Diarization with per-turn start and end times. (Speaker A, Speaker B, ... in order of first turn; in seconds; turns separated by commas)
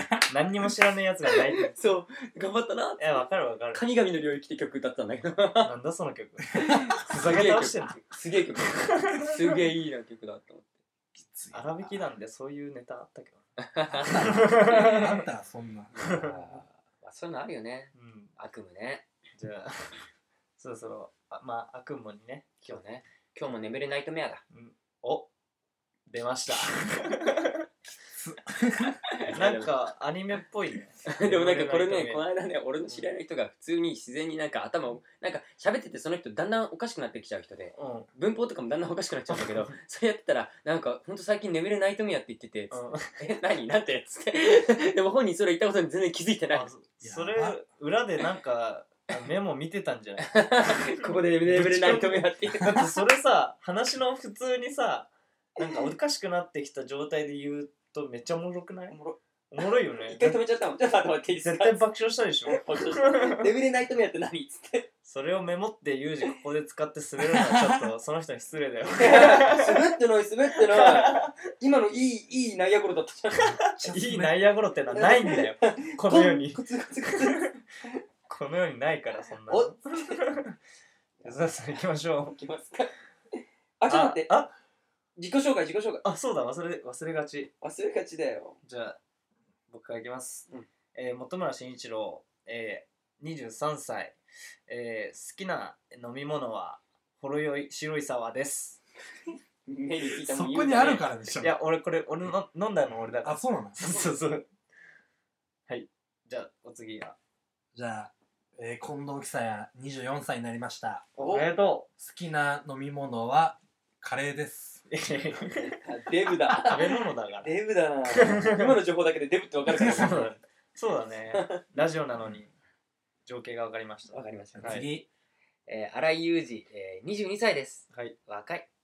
Speaker A: 0.3-1.7, Speaker B: 1.5-5.7, Speaker A: 3.0-3.8, Speaker A: 5.6-8.0, Speaker B: 6.5-10.7, Speaker A: 8.8-9.3, Speaker C: 11.2-11.9, Speaker A: 11.5-13.4, Speaker B: 13.6-15.2, Speaker C: 13.8-15.9, Speaker A: 14.1-15.1, Speaker B: 15.9-19.1, Speaker A: 16.0-16.4, Speaker A: 17.9-18.3, Speaker A: 19.4-19.9, Speaker A: 20.6-22.8, Speaker B: 22.6-24.4, Speaker A: 24.5-25.3, Speaker A: 26.1-27.6, Speaker C: 28.2-29.0, Speaker B: 29.1-29.7, Speaker A: 29.3-32.2, Speaker B: 31.1-46.7, Speaker A: 37.8-38.1, Speaker A: 42.7-43.1, Speaker A: 46.5-59.0, Speaker C: 47.0-47.6, Speaker B: 50.2-52.8, Speaker B: 58.9-59.2, Speaker A: 59.5-60.4, Speaker B: 60.0-61.8, Speaker A: 61.4-63.5, Speaker B: 62.5-64.9, Speaker A: 65.0-69.9, Speaker C: 67.4-67.8, Speaker B: 69.0-73.5, Speaker A: 70.5-71.3, Speaker A: 73.3-77.6, Speaker C: 73.5-74.5, Speaker B: 74.9-77.5, Speaker A: 78.3-80.5, Speaker A: 81.2-82.4, Speaker B: 82.3-82.9, Speaker B: 83.8-84.4, Speaker A: 83.9-84.5, Speaker B: 85.2-86.0, Speaker A: 86.0-87.5, Speaker B: 87.6-88.6, Speaker A: 88.6-89.0, Speaker A: 89.7-94.2, Speaker A: 94.7-98.8, Speaker B: 99.7-101.1, Speaker C: 100.1-101.6, Speaker A: 101.4-104.5, Speaker C: 103.2-103.8, Speaker A: 105.7-107.2, Speaker C: 107.7-111.1, Speaker A: 111.2-111.9, Speaker B: 111.2-111.5, Speaker C: 112.0-114.9, Speaker A: 114.9-115.7, Speaker B: 115.4-120.3, Speaker A: 116.5-118.8, Speaker C: 119.7-120.3, Speaker A: 119.7-122.5, Speaker B: 121.3-121.6, Speaker A: 123.2-124.9, Speaker B: 124.1-124.8, Speaker C: 124.5-125.0, Speaker B: 125.7-128.7